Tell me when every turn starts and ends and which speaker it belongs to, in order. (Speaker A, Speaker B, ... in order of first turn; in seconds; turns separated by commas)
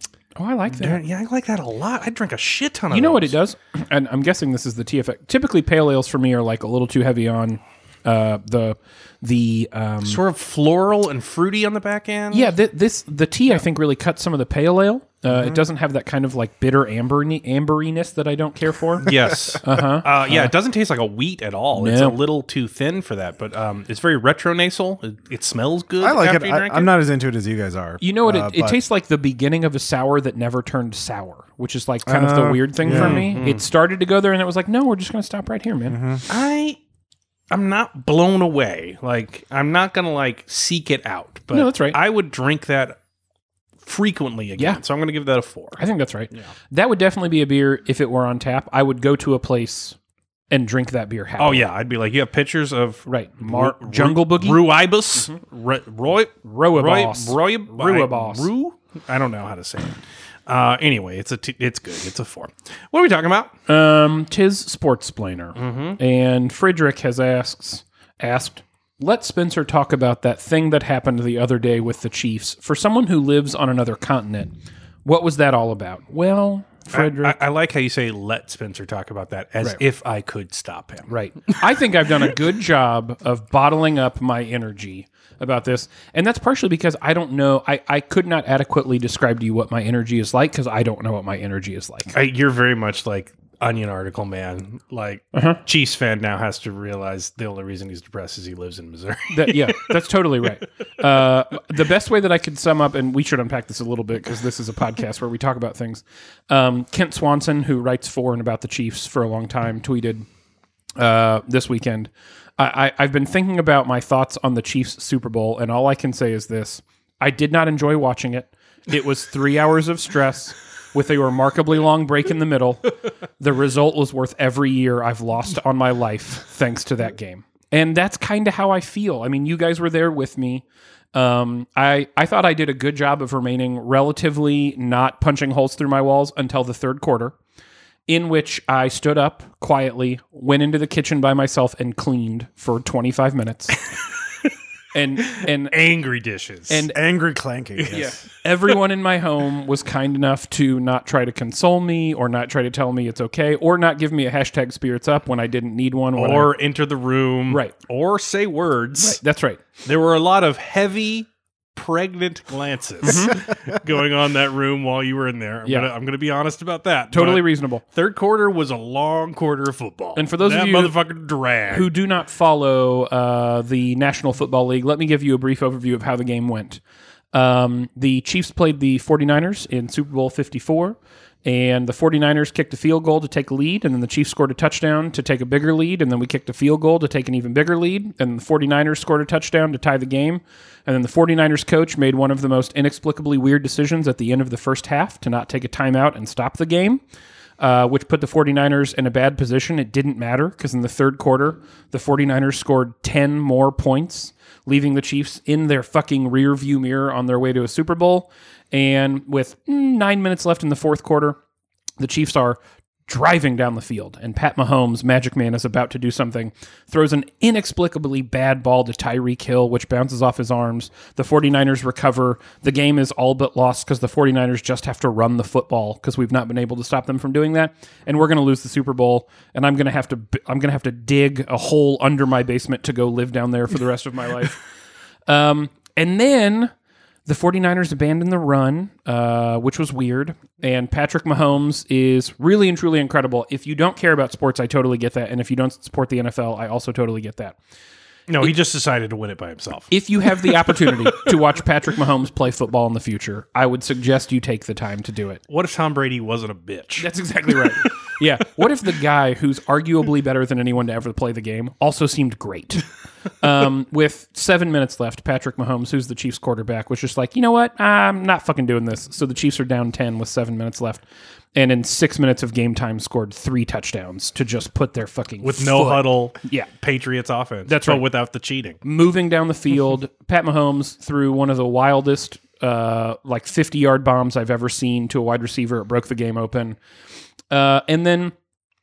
Speaker A: 0.4-1.0, Speaker B: 0.7-3.4, Speaker A: 2.9-10.2, Speaker B: 10.0-12.5, Speaker A: 12.3-20.5, Speaker C: 15.3-15.6, Speaker B: 19.0-26.9, Speaker A: 21.8-22.2, Speaker C: 26.0-28.8, Speaker A: 28.0-36.0, Speaker C: 32.1-33.4, Speaker B: 32.9-33.6, Speaker C: 35.9-36.2, Speaker B: 36.3-36.8, Speaker B: 37.5-43.0, Speaker A: 41.5-42.0, Speaker B: 43.8-45.8, Speaker A: 45.8-50.0, Speaker A: 50.5-51.6, Speaker B: 51.4-63.5, Speaker A: 53.1-54.7, Speaker A: 56.4-58.5, Speaker A: 63.7-74.5, Speaker B: 65.6-66.0, Speaker A: 75.0-77.4, Speaker B: 76.9-81.6, Speaker A: 81.1-92.1, Speaker B: 92.1-99.9, Speaker A: 95.3-95.6, Speaker A: 99.3-110.3, Speaker A: 111.0-137.3, Speaker A: 138.1-143.9, Speaker A: 144.9-145.8, Speaker B: 145.2-146.9, Speaker A: 146.7-147.0, Speaker C: 146.9-148.2, Speaker B: 147.8-148.2, Speaker A: 147.9-156.5, Speaker B: 156.2-159.2, Speaker A: 157.5-157.8, Speaker A: 159.0-159.6, Speaker B: 159.8-171.9, Speaker A: 163.0-163.4, Speaker A: 167.1-167.8, Speaker A: 170.2-171.0, Speaker A: 171.7-176.8, Speaker A: 177.3-197.0, Speaker A: 197.6-211.4, Speaker A: 212.0-234.6, Speaker A: 235.3-236.7, Speaker A: 237.3-247.6, Speaker B: 248.3-249.9, Speaker A: 249.9-255.4, Speaker B: 250.4-251.3, Speaker B: 255.5-257.1, Speaker A: 257.0-262.9, Speaker A: 263.4-271.0, Speaker A: 271.6-276.7, Speaker B: 275.4-278.8, Speaker A: 277.7-278.0, Speaker A: 278.8-286.8, Speaker A: 287.5-288.3